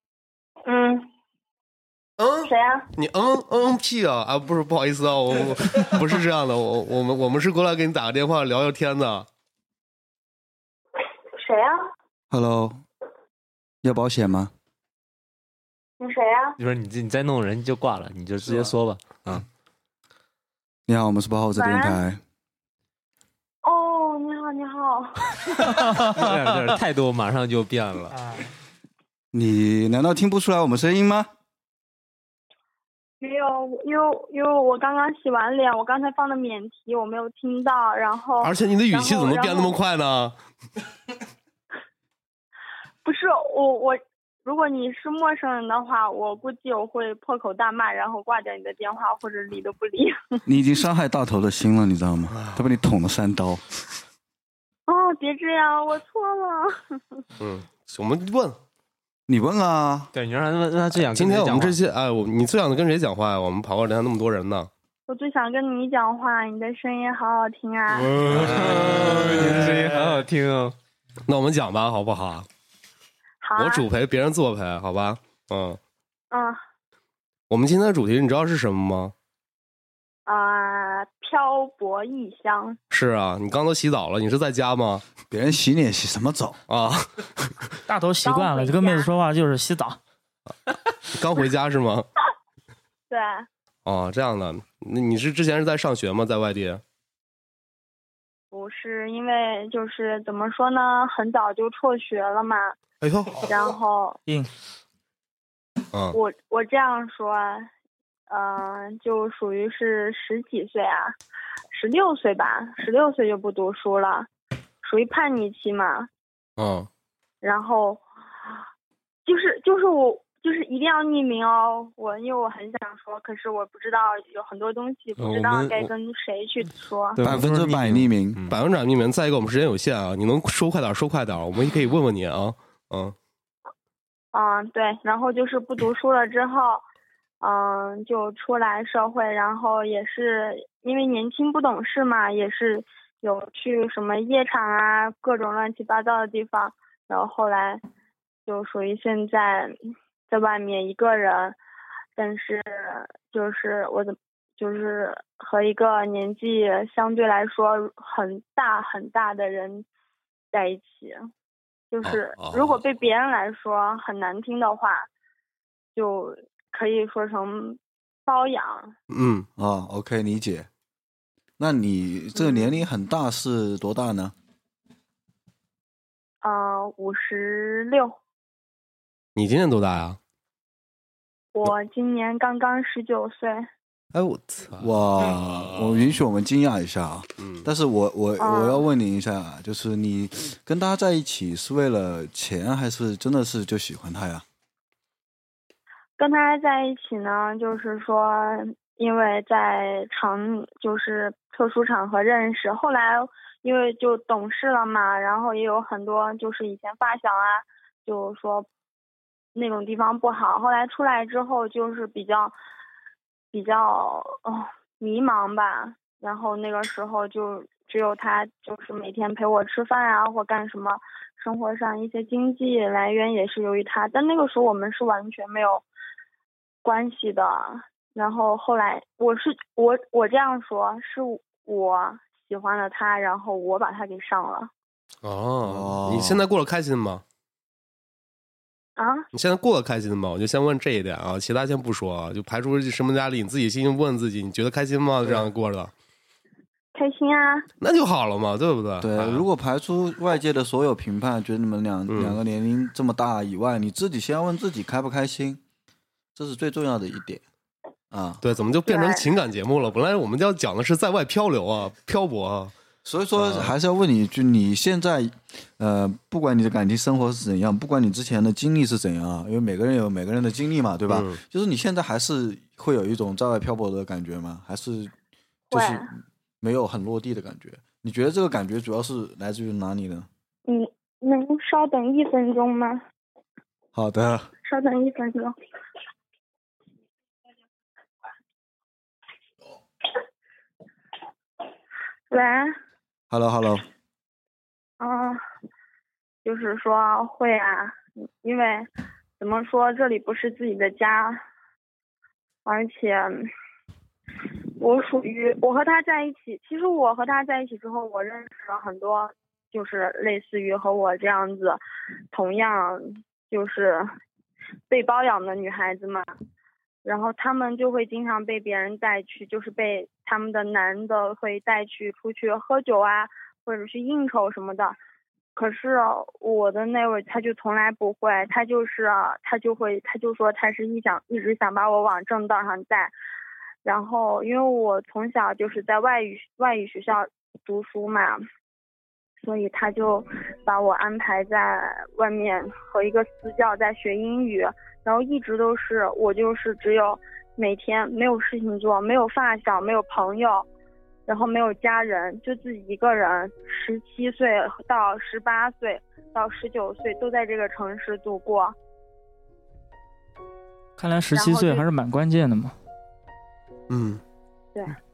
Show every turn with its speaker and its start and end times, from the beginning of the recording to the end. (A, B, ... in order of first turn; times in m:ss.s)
0:00.7-0:01.0 A
0:02.2-0:09.3 B
0:02.4-0:02.9 A
0:11.4-0:11.8 A
0:12.3-0:12.8 C
0:13.8-0:14.5 C
0:16.0-0:16.6 A
0:16.6-0:19.4 D
0:20.9-0:22.2 C
0:21.6-0:22.0 A
0:23.6-0:25.3 A
0:26.0-0:28.2 D
0:29.3-0:31.3 C
0:33.2-0:39.7 A
0:38.4-0:40.4 B
0:43.0-0:50.4 A
0:50.5-0:53.6 C
0:52.3-0:52.6 B
0:54.9-0:57.2 A
0:57.4-0:58.6 B
0:59.3-1:00.1 C
1:00.1-1:01.8 D
1:01.1-1:04.7 B
1:05.1-1:08.1 A
1:08.1-1:10.8 D
1:08.3-1:09.7 B
1:11.3-1:12.5 B
1:13.4-1:13.8 A
1:13.6-1:15.8 B
1:16.3-1:16.6 A
1:17.5-1:19.1 B
1:20.3-1:22.8 A
1:22.9-1:25.0 B
1:25.3-1:26.6 C
1:26.7-1:27.1 B
1:27.9-1:30.0 E
1:28.2-1:29.1 A
1:31.1-1:32.1 B
1:33.1-1:33.5 A
1:33.8-1:36.8 B
1:38.5-1:42.8 A
1:43.4-1:44.2 A
1:46.1-1:47.7 A
1:48.3-1:51.2 A
1:51.7-1:54.3 A
1:54.8-1:56.1 A
1:56.6-1:56.9 B
1:57.4-1:58.0 A
1:59.3-2:07.2 A
2:05.2-2:05.9 D
2:07.2-2:08.6 D
2:07.2-2:08.4 C
2:08.5-2:13.2 B
2:14.3-2:16.8 A
2:17.4-2:27.8 A
2:28.5-2:29.7 A
2:30.3-2:31.6 A
2:32.2-2:39.9 A
2:40.5-2:41.2 A
2:41.9-2:45.1 A
2:42.0-2:42.8 B
2:46.0-2:48.9 A
2:49.1-2:49.5 B
2:49.6-2:50.7 C
2:51.6-2:54.3 C
2:52.4-2:52.7 A
2:56.4-2:58.2 A
2:59.4-3:00.2 B
3:01.5-3:03.7 A
3:04.1-3:06.1 B
3:04.8-3:14.4 C
3:07.4-3:07.7 B
3:08.4-3:08.8 A
3:16.2-3:28.7 A
3:29.6-3:32.6 A
3:33.5-3:45.8 A
3:46.8-3:54.7 A
3:55.2-3:57.2 B
3:55.6-3:56.4 C
3:59.0-3:59.3 A
3:59.3-4:05.9 B
4:06.9-4:07.7 A
4:07.8-4:09.4 B
4:09.0-4:15.6 C
4:12.1-4:12.4 B
4:16.4-4:17.4 C
4:18.1-4:18.4 C
4:18.4-4:22.7 B
4:18.9-4:19.2 A
4:23.0-4:35.1 C
4:23.4-4:23.7 B
4:31.1-4:31.4 B
4:35.7-4:40.3 C
4:35.7-4:36.1 A
4:40.7-4:43.0 A
4:43.9-4:44.5 C
4:44.6-4:45.6 A
4:52.3-4:52.8 A
4:53.3-4:53.8 C
4:55.0-4:55.4 A
4:56.4-4:58.9 A
4:59.4-5:01.4 A
5:02.6-5:03.5 A
5:04.8-5:11.8 A
5:12.3-5:14.1 A
5:14.9-5:16.3 A
5:17.0-5:25.0 A
5:25.6-5:33.1 A
5:33.8-5:38.4 A
5:39.4-5:50.7 A
5:51.3-5:58.8 A
6:01.0-6:02.7 E
6:01.3-6:01.9 A
6:03.9-6:04.2 B